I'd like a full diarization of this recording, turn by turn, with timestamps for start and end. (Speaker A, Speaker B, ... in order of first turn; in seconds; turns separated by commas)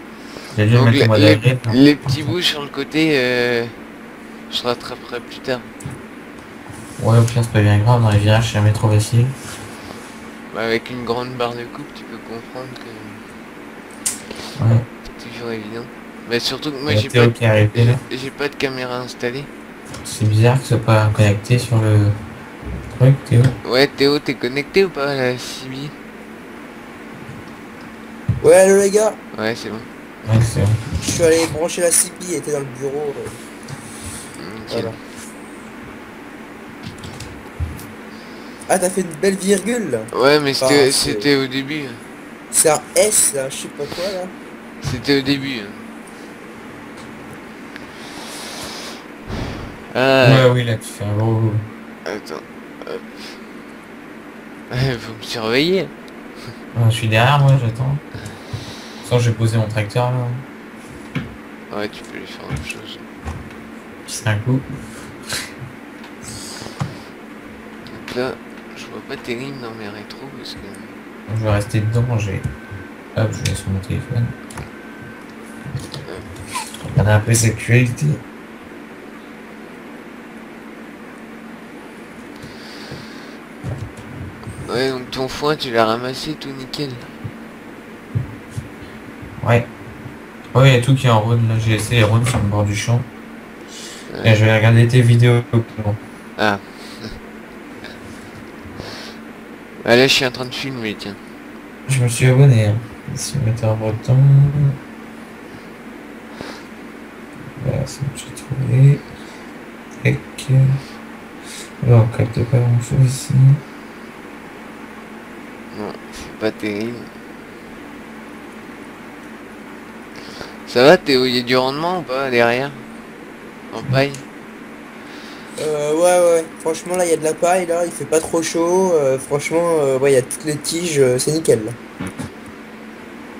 Speaker A: 0.5-2.3, Speaker B: 0.7-3.8, Speaker B: 4.5-5.7, Speaker A: 7.0-9.3, Speaker B: 10.5-13.2, Speaker A: 14.6-14.9, Speaker B: 15.1-19.5, Speaker A: 16.9-18.0, Speaker A: 20.0-22.2, Speaker A: 22.9-23.5, Speaker B: 23.6-25.9, Speaker C: 28.4-29.2, Speaker B: 29.3-29.9, Speaker A: 30.2-30.9, Speaker C: 31.0-33.4, Speaker B: 34.4-35.0, Speaker C: 34.7-35.0, Speaker C: 38.7-41.3, Speaker B: 40.1-42.0, Speaker C: 42.5-44.3, Speaker B: 44.8-45.9, Speaker B: 49.9-50.5, Speaker A: 50.2-51.7, Speaker B: 52.0-53.2, Speaker B: 54.7-55.9, Speaker A: 56.7-58.0, Speaker A: 59.0-60.4, Speaker B: 61.7-63.1, Speaker A: 64.1-64.7, Speaker B: 67.9-71.0, Speaker A: 71.3-72.5, Speaker A: 73.2-74.3, Speaker A: 76.9-78.2, Speaker B: 84.7-87.1, Speaker A: 89.4-89.7, Speaker A: 90.5-93.1, Speaker B: 94.1-94.4, Speaker A: 94.2-96.0, Speaker B: 96.4-97.2, Speaker B: 99.8-101.2, Speaker A: 101.9-104.8, Speaker A: 107.6-109.0, Speaker A: 110.0-110.8, Speaker A: 111.8-113.6, Speaker B: 115.7-117.1, Speaker B: 120.7-122.8, Speaker B: 123.7-124.2, Speaker C: 125.6-131.8